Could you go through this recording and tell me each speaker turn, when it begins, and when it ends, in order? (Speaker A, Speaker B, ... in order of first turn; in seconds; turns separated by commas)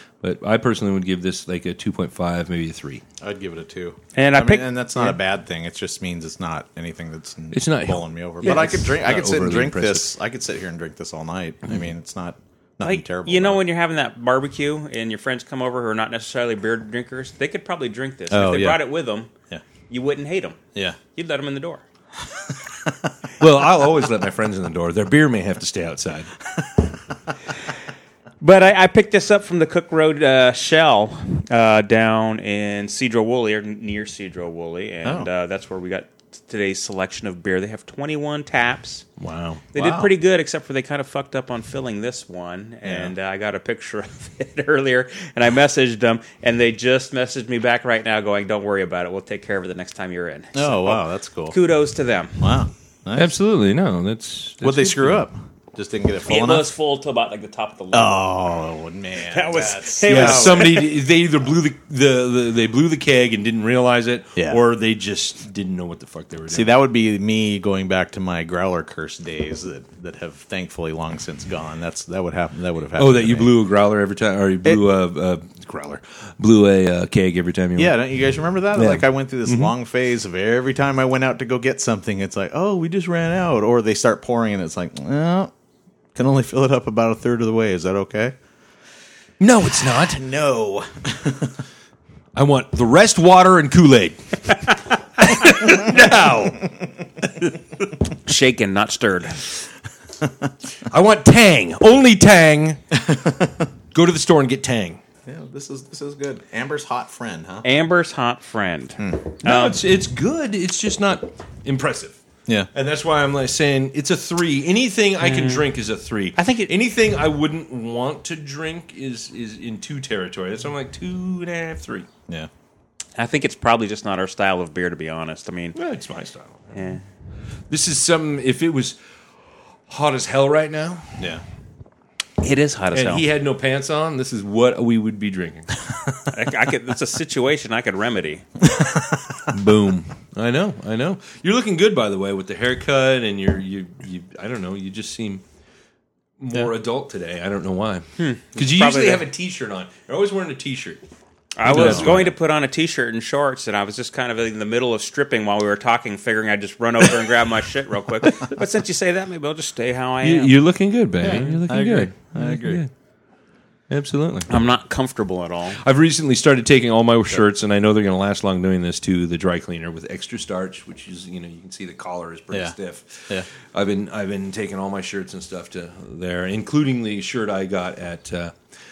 Speaker A: 0.2-3.0, Speaker B: 3.2-13.6, Speaker C: 4.1-4.7, Speaker A: 7.5-10.1, Speaker C: 8.4-8.7, Speaker C: 12.8-19.3, Speaker B: 18.3-18.8, Speaker C: 19.9-20.6, Speaker C: 21.1-21.8, Speaker B: 22.7-23.1, Speaker A: 23.4-26.3, Speaker C: 28.4-39.1, Speaker B: 35.0-35.3, Speaker A: 39.2-39.6, Speaker C: 39.7-52.6, Speaker B: 39.7-40.1, Speaker B: 42.8-43.1, Speaker B: 50.5-51.6, Speaker B: 52.4-53.3, Speaker A: 53.1-55.3, Speaker B: 54.6-56.7, Speaker C: 56.3-58.3, Speaker B: 57.9-60.9, Speaker C: 59.3-60.9, Speaker A: 60.0-66.7, Speaker B: 66.5-73.5, Speaker A: 73.0-78.0, Speaker B: 77.8-85.5, Speaker A: 78.7-79.7, Speaker B: 86.1-88.3, Speaker A: 89.4-90.2, Speaker B: 90.0-91.5, Speaker A: 92.3-94.4, Speaker A: 95.2-96.6, Speaker C: 98.2-99.4, Speaker A: 100.9-102.8, Speaker B: 103.1-103.4, Speaker A: 103.9-105.0, Speaker B: 105.2-107.7, Speaker C: 107.6-109.8, Speaker A: 109.4-112.2, Speaker A: 112.7-122.1, Speaker C: 115.2-115.7, Speaker C: 116.4-116.7, Speaker C: 123.2-125.8, Speaker A: 125.7-126.9, Speaker C: 126.7-127.0, Speaker A: 127.7-129.0, Speaker A: 129.9-131.2, Speaker C: 132.4-133.2, Speaker A: 132.9-135.7, Speaker C: 136.3-138.4, Speaker B: 138.6-139.4, Speaker A: 139.5-145.4, Speaker A: 146.4-151.0, Speaker C: 148.2-149.2, Speaker C: 151.6-160.5, Speaker A: 151.6-152.3, Speaker B: 151.7-152.2, Speaker A: 160.2-162.9, Speaker B: 161.2-162.8, Speaker C: 161.2-161.5, Speaker A: 163.9-164.5, Speaker C: 164.5-165.8, Speaker A: 165.8-178.6